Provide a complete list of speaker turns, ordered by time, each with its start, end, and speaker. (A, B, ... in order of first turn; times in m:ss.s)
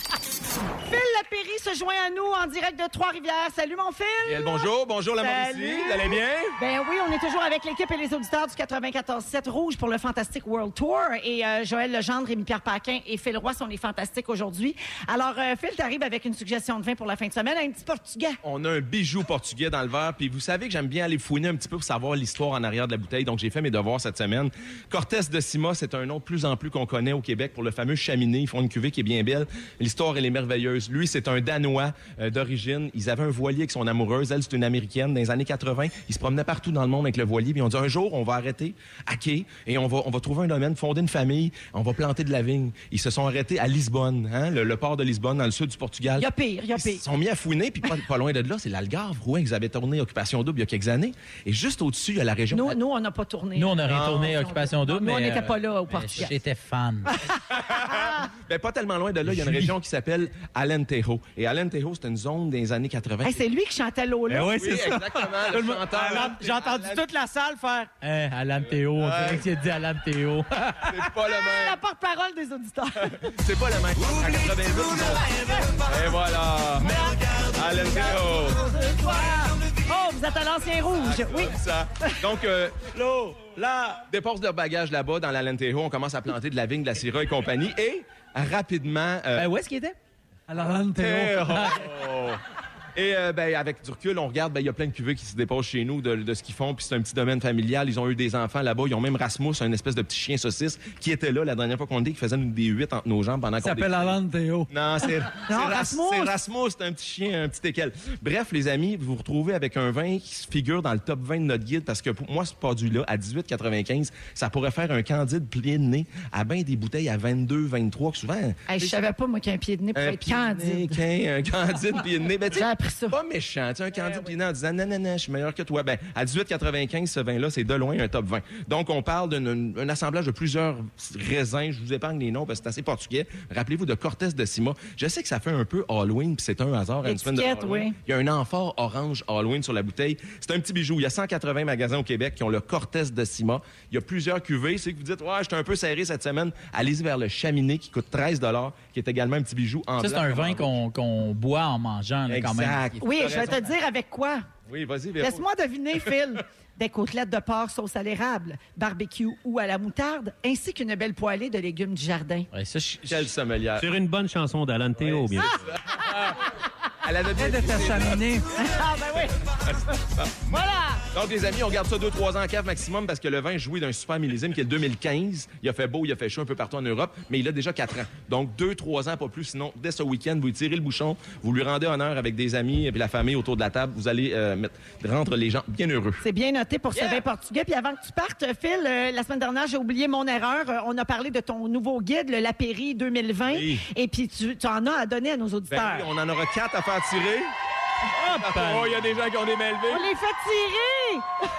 0:00.9-0:18.4 A
0:04.2-0:06.6 B
0:18.4-0:52.8 B
0:46.2-0:47.0 A
0:52.5-0:56.4 A
0:53.6-0:57.2 C
0:53.9-0:54.3 B
0:57.1-0:58.2 A
0:57.5-1:03.4 B
0:59.3-0:59.7 C
1:03.2-1:04.8 A
1:04.3-1:07.0 B
1:04.4-1:05.4 D
1:04.8-1:11.0 C
1:08.9-1:09.5 B
1:10.8-1:11.8 B
1:11.2-1:13.3 A
1:13.0-1:18.7 B
1:15.3-1:15.6 A
1:16.8-1:22.2 A
1:21.0-1:29.5 B
1:23.0-1:23.8 C
1:29.4-1:30.0 C
1:30.5-1:31.8 E
1:30.9-1:32.4 B
1:33.0-1:44.2 B
1:43.6-1:45.2 E
1:44.7-1:58.6 B
1:45.5-1:46.4 A
1:58.7-2:01.0 A
1:59.9-2:30.8 B
2:02.5-2:03.2 A
2:17.0-2:18.0 A
2:30.0-2:33.6 C
2:32.3-2:33.6 B
2:33.0-2:34.4 A
2:34.7-2:35.4 B
2:35.2-2:42.5 A
2:42.5-2:43.3 C
2:43.0-2:43.9 B
2:43.8-2:45.6 D
2:45.0-2:46.4 B
2:47.0-2:48.4 B
2:47.4-2:48.5 E
2:48.6-2:49.4 A
2:49.7-2:50.2 B
2:50.5-2:51.0 A
2:51.1-3:06.2 B
3:06.2-3:16.1 A
3:06.9-3:07.2 C
3:13.5-3:13.9 B
3:15.7-3:17.5 B
3:18.2-3:20.1 B
3:19.9-3:21.3 A